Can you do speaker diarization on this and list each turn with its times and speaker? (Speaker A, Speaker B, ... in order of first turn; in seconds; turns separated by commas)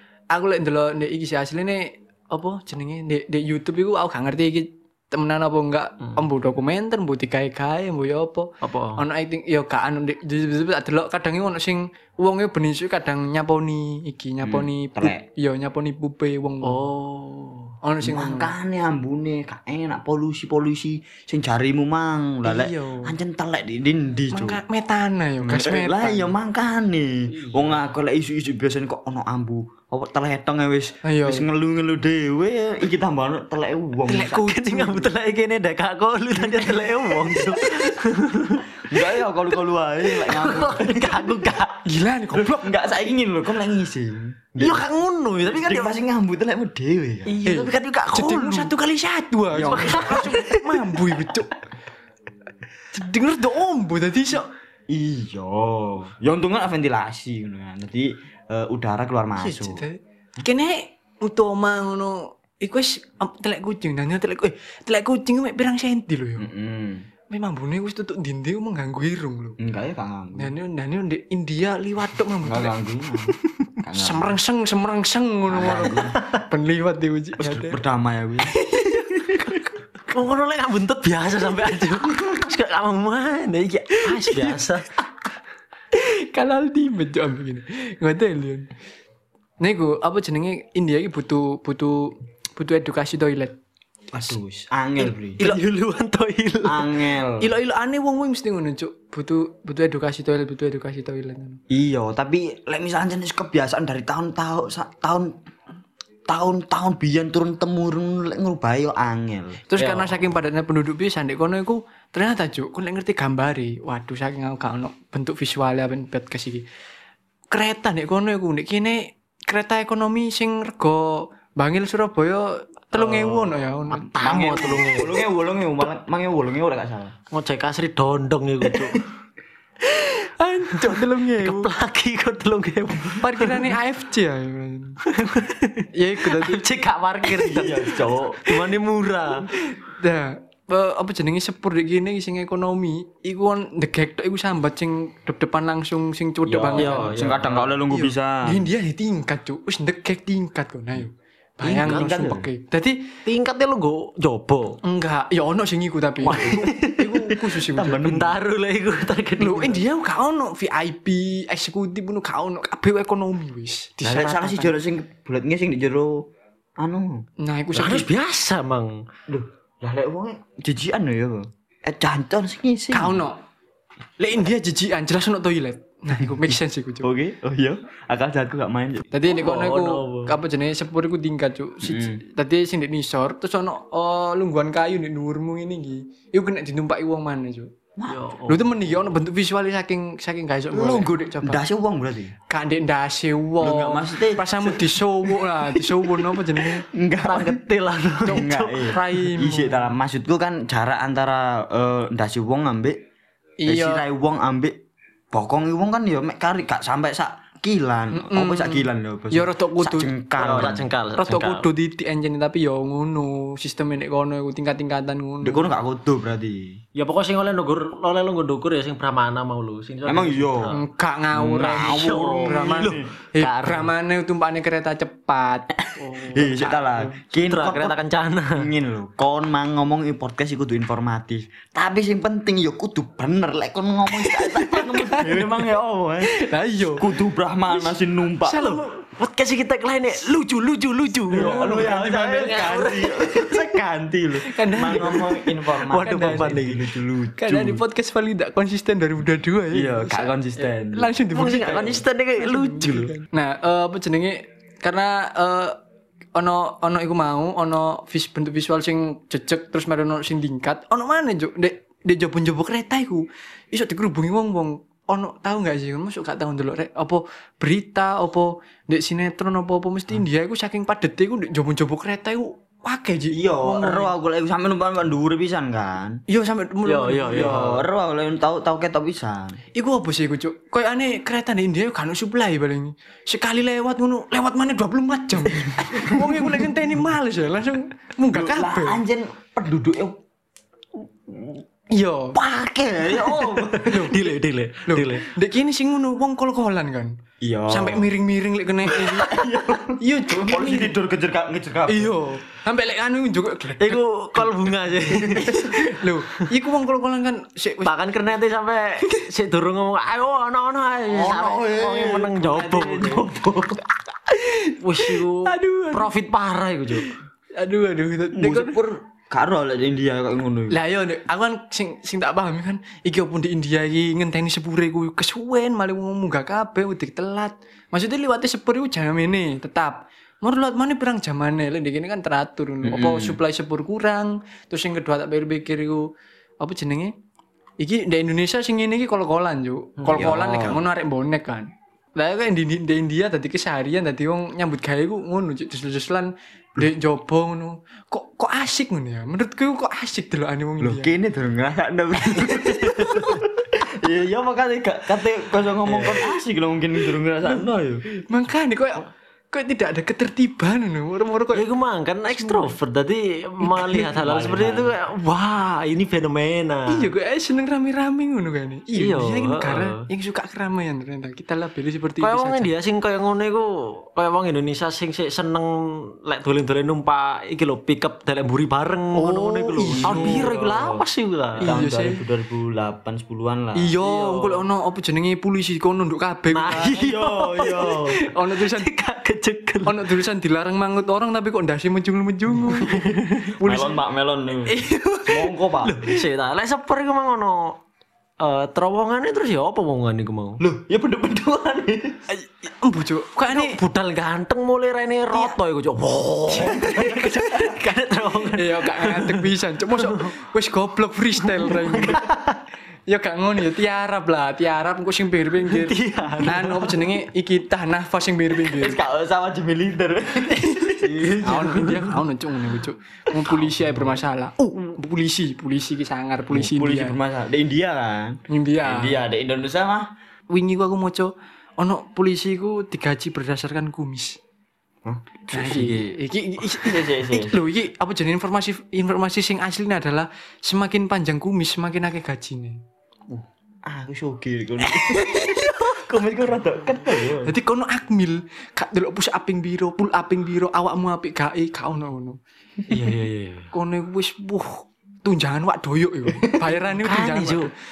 Speaker A: 0.3-16.8, Speaker B: 8.6-9.0, Speaker C: 14.4-15.2, Speaker B: 16.6-17.7, Speaker A: 17.8-18.5, Speaker C: 18.0-24.6, Speaker A: 22.4-23.1, Speaker A: 24.3-26.3, Speaker C: 25.4-34.4, Speaker B: 27.5-27.7, Speaker A: 31.0-31.4, Speaker A: 34.1-35.1, Speaker B: 34.2-38.9, Speaker C: 38.8-41.3, Speaker B: 40.1-41.8, Speaker A: 41.8-42.7, Speaker C: 42.3-44.8, Speaker B: 44.6-46.0, Speaker C: 45.4-47.4, Speaker B: 47.2-48.7, Speaker A: 47.4-51.5, Speaker B: 49.5-51.3, Speaker C: 49.6-50.3, Speaker A: 52.9-54.5, Speaker C: 54.9-59.8, Speaker A: 59.4-66.5, Speaker C: 66.4-67.1, Speaker A: 67.3-69.6, Speaker C: 69.6-70.5, Speaker A: 70.3-72.8, Speaker C: 72.4-74.3, Speaker A: 73.9-77.8, Speaker C: 75.5-76.2, Speaker C: 77.4-78.5, Speaker A: 78.5-79.7, Speaker B: 80.1-84.9, Speaker A: 84.0-84.6, Speaker A: 85.9-88.7, Speaker A: 89.6-93.5, Speaker C: 94.1-95.4, Speaker B: 95.1-96.9, Speaker C: 96.6-97.5, Speaker A: 97.4-101.6, Speaker C: 101.7-105.3, Speaker C: 106.3-109.6, Speaker A: 109.7-116.6, Speaker B: 109.8-110.2, Speaker A: 117.5-124.7, Speaker B: 123.0-125.2, Speaker C: 124.2-127.1, Speaker B: 127.3-129.0, Speaker C: 128.7-129.0, Speaker A: 129.8-131.7, Speaker B: 130.8-133.8, Speaker A: 133.2-135.0, Speaker B: 135.1-139.5, Speaker A: 135.9-136.6, Speaker C: 137.4-138.4, Speaker A: 139.5-147.1, Speaker B: 146.5-147.7, Speaker C: 146.7-148.6, Speaker A: 147.9-153.2, Speaker C: 151.6-152.5, Speaker B: 151.8-152.2, Speaker B: 153.2-154.8, Speaker A: 154.8-158.1, Speaker C: 156.2-156.7, Speaker B: 156.3-157.4, Speaker C: 157.7-158.4, Speaker B: 157.9-159.8, Speaker A: 159.4-164.6, Speaker C: 164.0-167.2, Speaker B: 164.0-164.7, Speaker A: 167.4-168.1, Speaker B: 167.7-169.0, Speaker C: 169.3-173.2, Speaker A: 172.9-173.4, Speaker A: 174.2-177.1, Speaker C: 177.0-179.1, Speaker A: 179.1-187.7, Speaker B: 179.3-180.3, Speaker C: 181.8-182.2, Speaker C: 188.0-188.2, Speaker B: 188.1-188.9, Speaker A: 188.5-191.6, Speaker C: 190.7-192.3, Speaker A: 192.5-196.8, Speaker C: 193.6-197.6, Speaker B: 197.2-198.9, Speaker A: 198.2-199.9, Speaker C: 198.2-203.0, Speaker A: 203.6-204.0, Speaker C: 203.7-204.8, Speaker C: 205.3-210.9, Speaker A: 208.1-215.7, Speaker B: 210.4-211.7, Speaker C: 215.4-216.8, Speaker B: 216.9-220.8, Speaker C: 220.0-220.7, Speaker A: 220.7-227.2, Speaker C: 221.3-223.1, Speaker B: 221.6-223.9, Speaker C: 225.8-228.0, Speaker B: 227.5-228.7, Speaker C: 228.6-238.8, Speaker A: 234.2-235.6, Speaker A: 236.2-237.1, Speaker A: 238.5-238.9, Speaker B: 238.5-243.7, Speaker A: 241.3-242.1, Speaker C: 241.3-247.8, Speaker A: 244.4-246.6, Speaker B: 245.8-246.9, Speaker A: 247.4-255.8, Speaker C: 249.7-252.0, Speaker B: 251.3-253.1, Speaker A: 256.3-274.1, Speaker C: 273.3-276.2, Speaker A: 276.3-277.6, Speaker B: 276.9-277.8, Speaker C: 277.3-279.6, Speaker A: 279.7-289.0, Speaker C: 285.9-286.3, Speaker C: 288.3-290.2, Speaker C: 291.3-291.6, Speaker A: 291.9-292.4, Speaker C: 292.3-294.0, Speaker B: 293.2-295.3, Speaker A: 293.8-294.3, Speaker A: 294.9-297.1, Speaker C: 297.4-298.1, Speaker A: 297.7-299.4, Speaker C: 298.9-302.2, Speaker A: 300.0-301.0, Speaker A: 301.9-304.7, Speaker B: 303.8-305.8, Speaker C: 305.1-305.6, Speaker A: 305.2-307.9, Speaker B: 307.8-313.3, Speaker C: 311.1-313.8, Speaker A: 314.3-316.1, Speaker B: 314.8-317.1, Speaker A: 316.9-318.8, Speaker C: 318.3-320.8, Speaker A: 320.7-336.1, Speaker C: 332.8-333.4, Speaker A: 336.6-337.1, Speaker A: 337.8-351.1, Speaker C: 340.0-340.8, Speaker C: 350.8-358.0, Speaker B: 352.8-353.2, Speaker A: 353.0-353.3, Speaker B: 355.9-356.3, Speaker A: 358.3-361.6, Speaker B: 361.5-367.1, Speaker A: 362.3-362.8, Speaker A: 363.6-364.1, Speaker C: 364.1-364.9, Speaker A: 366.9-372.7, Speaker B: 368.9-370.0, Speaker B: 372.2-381.7, Speaker A: 379.1-380.5, Speaker C: 379.8-381.0, Speaker C: 381.6-384.0, Speaker A: 381.6-382.2, Speaker A: 383.7-386.9, Speaker B: 386.5-390.1, Speaker C: 386.7-388.1, Speaker A: 387.6-388.9, Speaker A: 389.8-394.0, Speaker B: 392.7-393.5, Speaker C: 393.6-396.0, Speaker A: 394.7-396.2, Speaker B: 396.0-397.8, Speaker B: 398.4-400.6, Speaker C: 400.6-402.2, Speaker A: 402.3-403.8, Speaker B: 403.5-410.3, Speaker A: 406.6-407.8, Speaker C: 406.7-407.2, Speaker A: 408.5-412.3, Speaker B: 411.4-412.6, Speaker A: 413.1-419.0, Speaker B: 415.6-417.1, Speaker C: 418.6-421.9, Speaker A: 420.6-427.2, Speaker B: 421.0-422.1, Speaker C: 426.5-430.1, Speaker A: 428.5-429.2, Speaker A: 430.5-434.4, Speaker C: 435.0-436.1, Speaker A: 435.5-442.8, Speaker C: 436.7-437.6, Speaker C: 443.3-447.5, Speaker A: 444.9-446.0, Speaker A: 447.4-452.4, Speaker B: 452.9-453.7, Speaker A: 453.7-457.7, Speaker B: 456.9-457.7